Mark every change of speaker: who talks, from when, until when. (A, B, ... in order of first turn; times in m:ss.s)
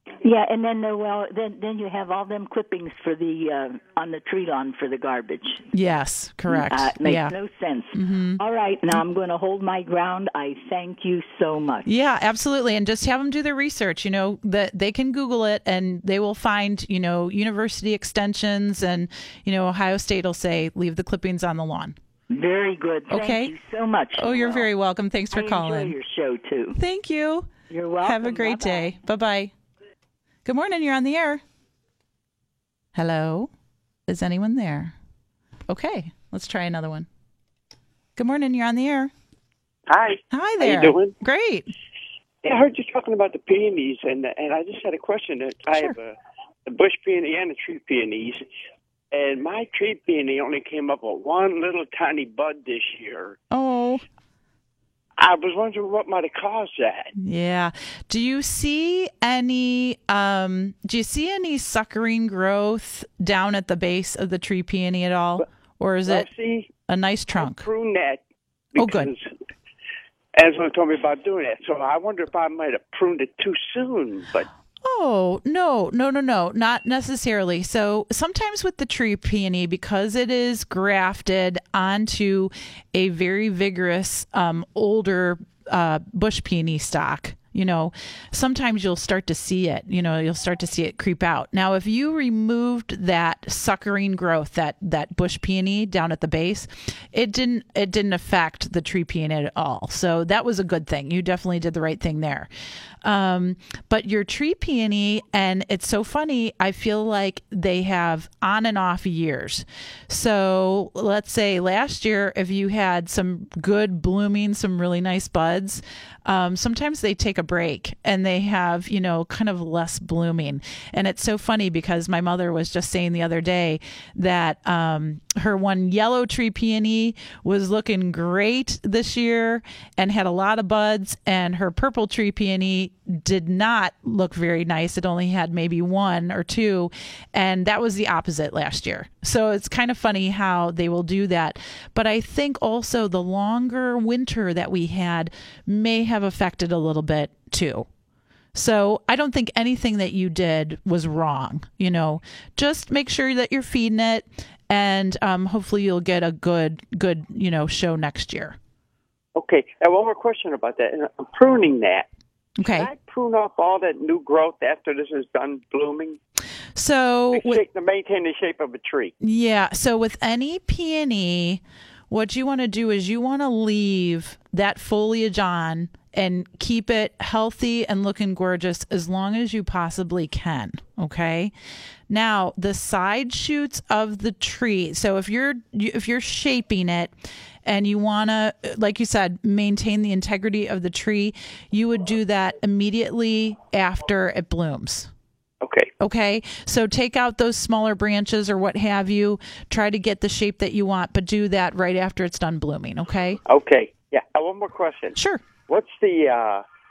0:00.2-0:05.7 A
0:05.7-0:07.4 B
0:06.5-0:11.9 A
0:07.9-0:08.4 B
0:11.8-0:22.0 B
0:22.3-0:24.7 A
0:23.1-0:23.5 B
0:24.2-0:25.9 B
0:25.3-0:26.8 A
0:26.8-0:27.5 B
0:27.7-0:28.9 A
0:28.0-0:29.5 B
0:30.4-0:31.4 B
0:33.0-0:33.5 B
0:34.1-0:34.9 B
0:35.7-0:37.1 B
0:38.2-0:39.1 B
0:39.9-0:41.2 C
0:40.3-0:41.7 B
0:42.4-0:46.2 C
0:46.7-0:48.4 C
0:49.1-0:53.4 C
0:53.5-0:54.0 B
0:55.2-0:57.1 C
0:57.2-1:06.3 B
1:06.0-1:06.7 C
1:06.9-1:07.7 B
1:07.4-1:08.2 C
1:08.8-1:09.3 C
1:08.8-1:09.1 B
1:10.4-1:14.5 C
1:14.8-1:42.5 B
1:43.0-2:27.9 B
2:28.6-2:38.6 B
2:39.4-2:42.1 C
2:42.6-2:42.9 B
2:42.6-2:46.2 C
2:46.8-2:47.6 B
2:47.3-2:49.1 C
2:49.2-3:01.5 B
3:02.1-3:07.1 B
3:07.6-3:15.1 B
3:15.6-3:15.9 C
3:16.0-3:23.4 B
3:23.5-3:25.2 C
3:25.2-3:25.4 B
3:25.7-3:26.6 C